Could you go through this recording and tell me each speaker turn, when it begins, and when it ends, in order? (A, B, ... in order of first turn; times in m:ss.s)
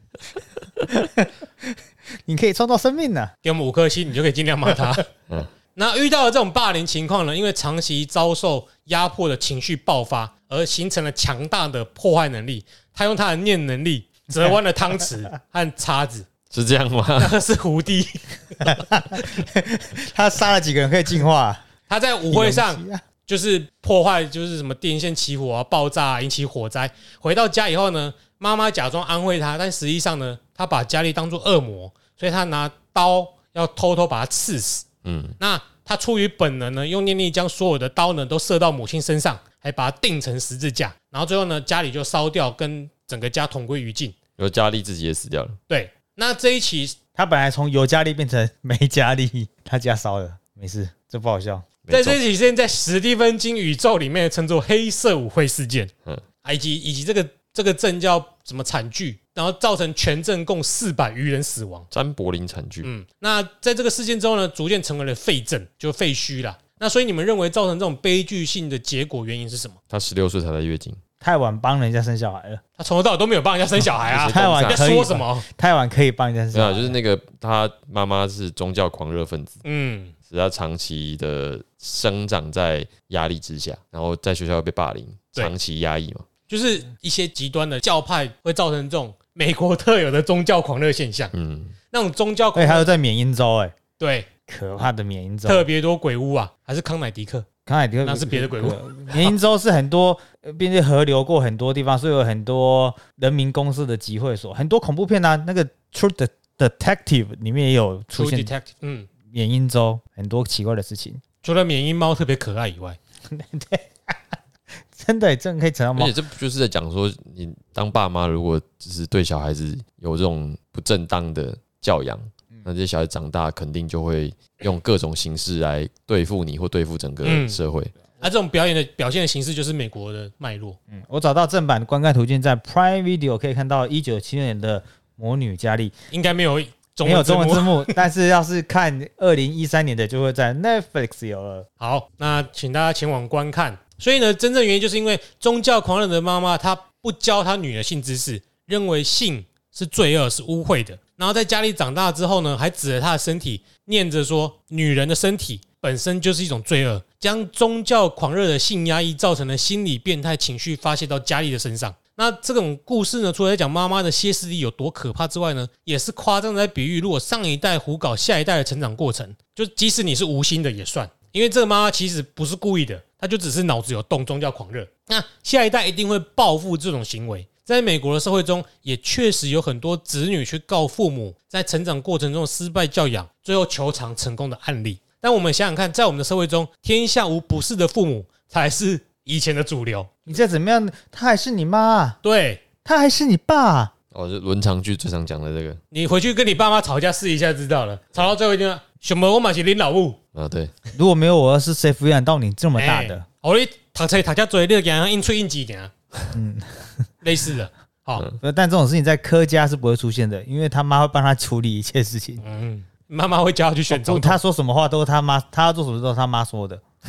0:00.8-0:03.3 A
0:03.4-0:05.1 B
0:05.7-0:16.3 B
0:16.5-0:17.4 C
0:17.2-0:18.8 B
0:18.6-0:21.6 A
0:21.9-0:34.9 B
0:22.3-0:23.0 A
0:35.0-0:35.4 C
0:35.4-0:44.2 B
0:44.4-0:45.6 C
0:45.7-0:47.0 B
0:47.1-0:51.7 A
0:51.8-0:52.2 C
0:51.9-0:55.9 B
0:56.4-1:01.9 B
1:01.9-1:02.9 C
1:02.8-1:09.8 B
1:09.9-1:11.0 C
1:11.2-1:12.6 A
1:12.8-1:15.4 B
1:14.0-1:14.9 C
1:14.2-1:17.0 A
1:16.5-1:19.6 C
1:19.6-1:20.1 B
1:20.3-1:26.2 C
1:26.5-1:31.3 B
1:31.3-1:31.8 C
1:31.9-1:32.9 B
1:32.5-1:33.8 A
1:34.0-1:34.3 B
1:34.5-1:35.7 A
1:35.4-1:37.4 B
1:37.6-1:48.5 A
1:38.0-1:39.3 B
1:48.1-1:49.1 B
1:49.3-1:51.2 A
1:51.4-1:53.0 B
1:53.3-1:54.2 A
1:54.9-1:56.1 A
1:56.0-2:07.9 C
2:07.2-2:07.6 B
2:08.2-2:10.8 B
2:10.9-2:15.9 A
2:16.1-2:18.0 B
2:17.0-2:21.6 A
2:21.8-3:10.1 B
3:10.2-3:12.2 A
3:12.2-3:12.6 B
3:12.8-3:13.9 A
3:14.1-3:15.8 C
3:15.9-3:20.2 B
3:20.3-3:20.7 C
3:20.9-3:23.2 A
3:22.8-3:25.9 B
3:26.3-3:26.9 A
3:27.2-3:28.2 B
3:28.4-3:32.4 A
3:32.4-3:34.4 B
3:33.9-3:36.8 A